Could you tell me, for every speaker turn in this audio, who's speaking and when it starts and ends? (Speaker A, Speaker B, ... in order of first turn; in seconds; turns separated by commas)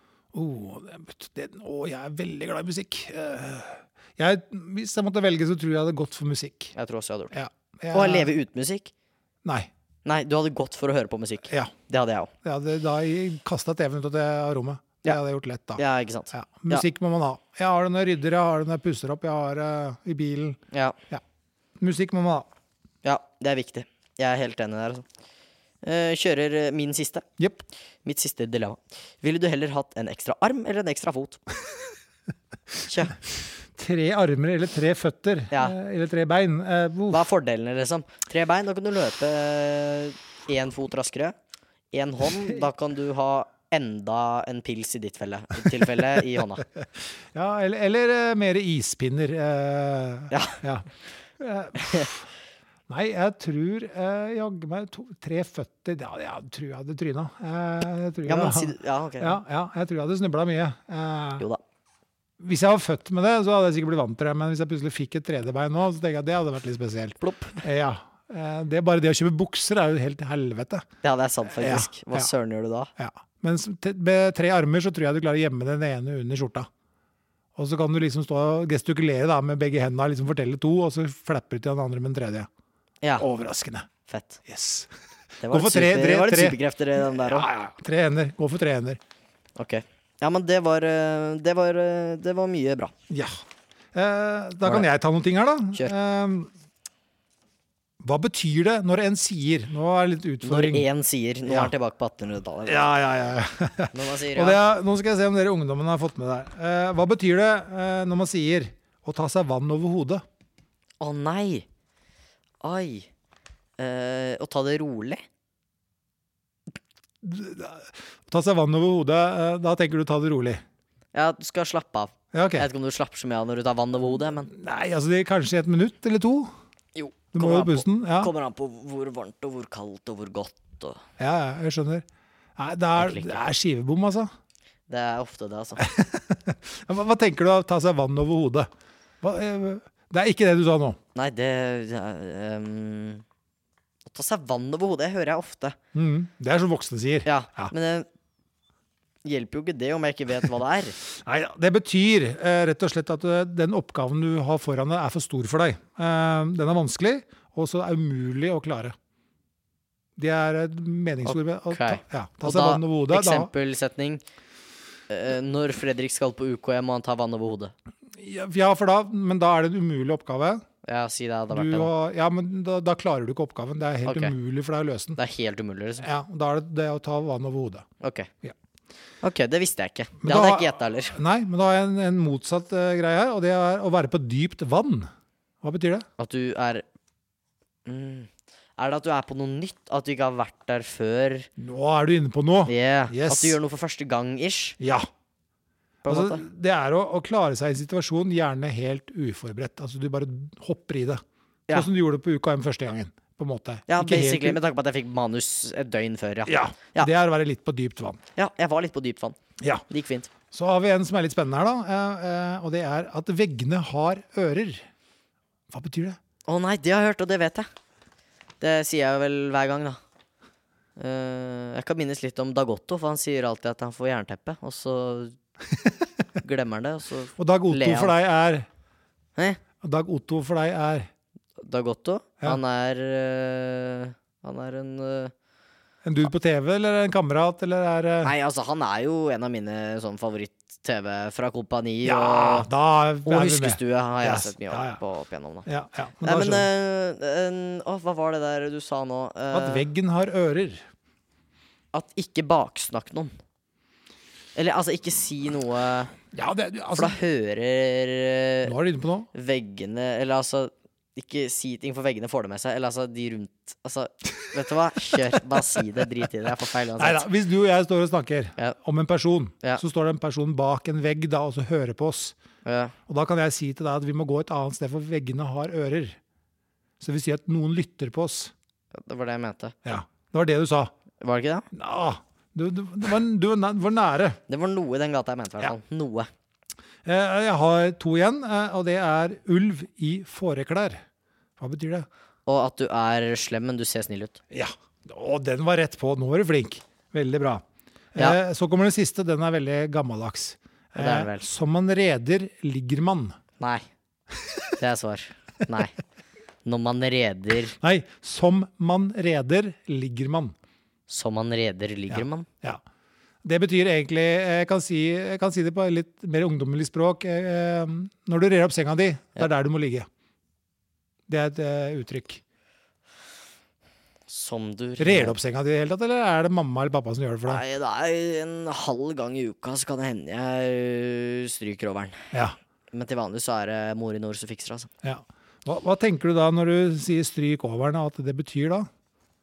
Speaker A: 0.3-6.7, Speaker B: 6.8-7.4, Speaker A: 7.3-8.3, Speaker B: 7.9-8.9, Speaker A: 9.4-9.7, Speaker B: 10.1-12.3, Speaker A: 12.4-20.6, Speaker B: 15.8-16.9, Speaker A: 21.8-22.5, Speaker B: 23.0-25.1, Speaker B: 25.8-27.2, Speaker A: 27.4-27.6, Speaker B: 28.1-31.4, Speaker B: 32.9-33.2, Speaker A: 33.7-37.2, Speaker B: 37.1-41.4, Speaker B: 41.9-46.7, Speaker A: 46.8-50.9, Speaker B: 50.3-50.6, Speaker A: 51.4-52.3, Speaker B: 51.8-52.1, Speaker A: 52.9-61.5, Speaker B: 58.2-59.4, Speaker A: 62.4-70.9, Speaker B: 67.2-67.6, Speaker B: 71.0-72.9, Speaker A: 71.5-72.3, Speaker A: 73.0-76.7, Speaker A: 77.6-82.5, Speaker B: 83.0-83.3, Speaker A: 83.2-83.9, Speaker B: 84.1-84.4, Speaker A: 84.5-84.9, Speaker B: 85.4-87.5, Speaker A: 85.5-89.0, Speaker B: 89.6-92.9, Speaker A: 93.1-93.4, Speaker A: 93.9-96.5, Speaker A: 98.0-100.9, Speaker B: 100.4-102.9, Speaker A: 101.5-101.7, Speaker A: 102.7-110.2, Speaker B: 103.9-104.6, Speaker B: 111.0-111.7, Speaker B: 112.6-113.1, Speaker B: 113.8-115.2, Speaker A: 117.2-120.6, Speaker B: 121.1-124.5, Speaker A: 122.3-122.7, Speaker A: 124.5-126.5, Speaker B: 127.0-131.0, Speaker A: 127.3-128.3, Speaker A: 131.2-132.1, Speaker A: 132.6-134.3, Speaker B: 133.0-133.4, Speaker B: 134.9-135.8, Speaker A: 135.8-138.7, Speaker A: 139.2-141.0, Speaker B: 141.2-143.2, Speaker B: 144.1-145.8, Speaker A: 145.9-147.7, Speaker B: 147.2-148.1, Speaker B: 149.2-151.0, Speaker A: 151.2-158.9, Speaker A: 160.2-163.5, Speaker B: 161.2-164.2, Speaker B: 165.1-167.7, Speaker A: 168.2-170.6, Speaker B: 170.8-171.9, Speaker A: 171.5-175.2, Speaker B: 174.1-174.3, Speaker B: 175.2-176.1, Speaker A: 176.0-177.9, Speaker B: 178.0-178.3, Speaker B: 179.2-181.2, Speaker A: 180.2-185.1, Speaker A: 185.6-186.1, Speaker B: 186.2-186.8, Speaker B: 187.9-191.5, Speaker A: 191.6-193.6, Speaker B: 192.7-194.8, Speaker A: 194.8-195.1, Speaker B: 196.0-196.4, Speaker A: 196.1-201.2, Speaker A: 201.7-204.6, Speaker B: 203.9-207.1, Speaker A: 206.5-208.2, Speaker B: 208.4-209.4, Speaker A: 209.6-209.8, Speaker B: 209.9-210.3, Speaker A: 210.5-214.8, Speaker A: 215.7-216.2, Speaker B: 216.5-217.7, Speaker B: 218.6-220.0, Speaker B: 221.0-225.4, Speaker B: 226.4-228.1, Speaker A: 227.4-228.7, Speaker A: 229.8-231.1, Speaker B: 231.6-235.3, Speaker A: 236.0-238.3, Speaker B: 238.2-242.7, Speaker A: 242.1-245.0, Speaker B: 243.3-245.7, Speaker A: 245.7-246.7, Speaker B: 246.2-249.9, Speaker A: 249.5-250.8, Speaker B: 251.9-253.3, Speaker B: 254.6-256.2, Speaker A: 256.3-257.2, Speaker B: 256.9-258.7, Speaker A: 258.6-259.3, Speaker B: 259.3-267.3, Speaker A: 265.1-265.8, Speaker A: 267.0-272.4, Speaker B: 272.6-272.9, Speaker A: 273.1-276.2, Speaker A: 277.0-278.5, Speaker B: 278.9-279.8, Speaker A: 279.9-280.9, Speaker B: 281.2-281.7, Speaker A: 281.7-284.4, Speaker B: 284.5-286.3, Speaker A: 287.0-291.0, Speaker A: 291.6-292.1, Speaker B: 292.5-294.4, Speaker A: 294.5-297.6, Speaker A: 298.1-303.4, Speaker B: 301.0-301.5, Speaker B: 303.6-303.9, Speaker A: 304.4-304.7, Speaker B: 304.8-306.0, Speaker B: 306.6-307.8, Speaker A: 307.8-310.6, Speaker B: 311.1-312.5, Speaker A: 312.1-312.8, Speaker A: 313.4-320.1, Speaker A: 321.3-322.4, Speaker B: 324.3-325.4, Speaker A: 325.0-327.6, Speaker B: 327.5-332.3, Speaker B: 332.9-334.9, Speaker A: 335.0-338.9